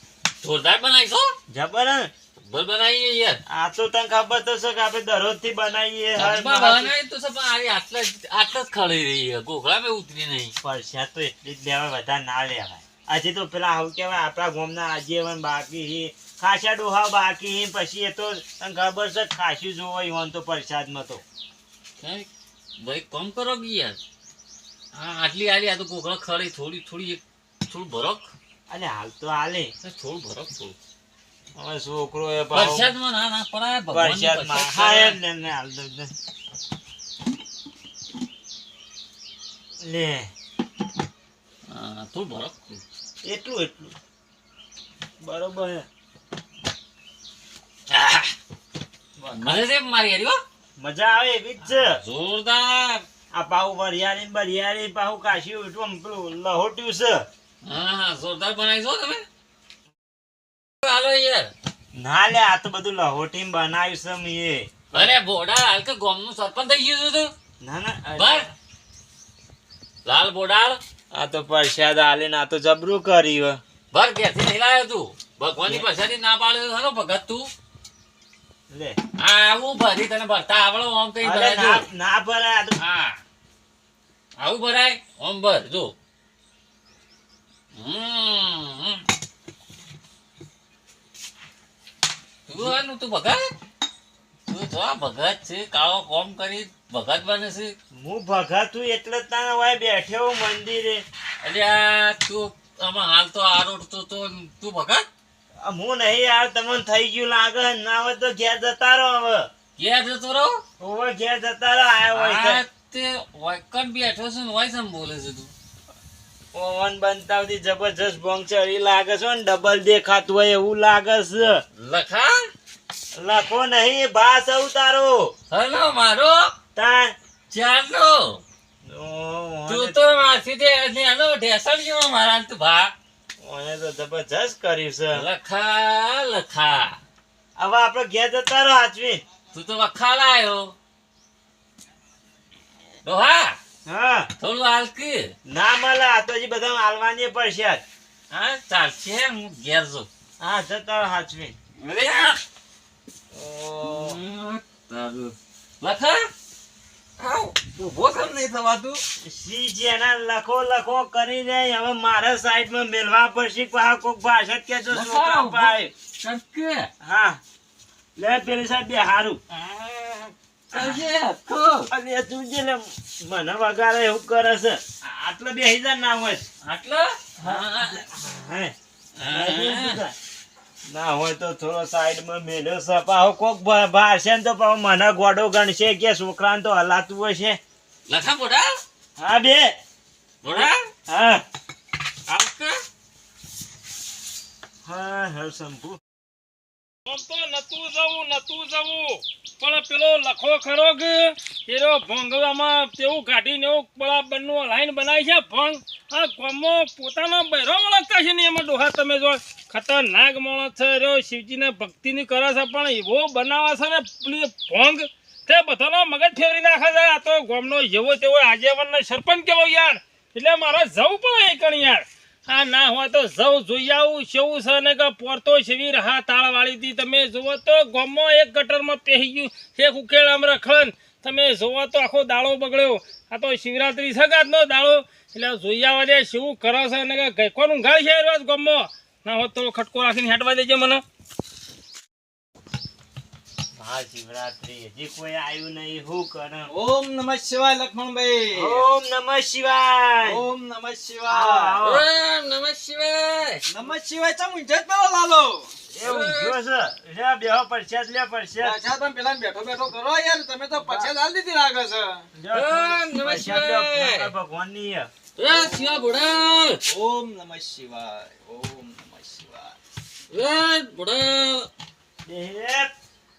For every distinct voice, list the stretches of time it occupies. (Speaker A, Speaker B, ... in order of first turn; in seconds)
Speaker A: 0.4-1.3, 2.4-3.4, 6.2-10.5, 22.0-24.0, 24.9-28.3, 29.8-30.8, 32.5-35.2, 41.7-42.8, 47.9-48.3, 49.4-50.4, 51.7-53.0, 57.6-59.2, 60.8-61.5, 64.9-67.3, 68.2-68.4, 70.0-70.8, 73.9-77.5, 79.2-81.8, 82.8-83.2, 84.4-85.9, 87.8-89.0, 92.5-93.4, 94.5-97.8, 101.4-105.0, 109.8-110.6, 112.1-115.5, 121.8-122.5, 125.5-126.5, 127.5-128.4, 129.7-132.9, 135.1-137.0, 139.5-140.7, 143.0-143.6, 144.4-145.3, 148.3-150.1, 151.8-152.4, 153.8-156.3, 157.2-159.0, 164.9-166.9, 169.5-171.9, 176.6-178.1, 179.2-180.0, 188.1-188.7, 190.4-190.8, 192.3-192.8, 251.8-253.6, 256.0-256.5, 262.5-264.3, 265.4-266.8, 270.3-271.7
Speaker B: 1.5-2.1, 3.5-6.9, 10.6-21.2, 28.7-29.7, 31.6-32.9, 33.9-36.1, 39.8-40.3, 43.2-43.9, 45.2-45.9, 49.2-49.6, 50.8-52.0, 53.3-57.2, 62.0-65.1, 67.6-68.5, 71.1-73.6, 78.7-79.0, 81.2-82.8, 97.9-101.0, 105.6-109.5, 110.8-112.6, 116.5-121.6, 123.2-125.3, 126.7-127.1, 128.8-130.0, 133.4-135.3, 137.6-139.2, 143.8-144.3, 145.4-147.8, 150.4-151.5, 153.3-154.2, 159.2-165.9, 167.0-167.4, 168.2-169.4, 170.7-171.0, 171.9-176.4, 177.4-178.7, 179.2-180.1, 180.9-187.6, 189.2-189.8, 190.5-191.4, 194.8-196.0, 243.8-246.7, 248.5-250.4, 251.3-252.1, 255.9-258.8, 260.8-261.1, 262.3-265.1, 272.2-272.9
Speaker C: 197.1-241.0
Speaker D: 246.7-248.8, 250.2-251.8, 253.7-255.7, 258.6-262.2, 265.5-266.1, 266.8-269.8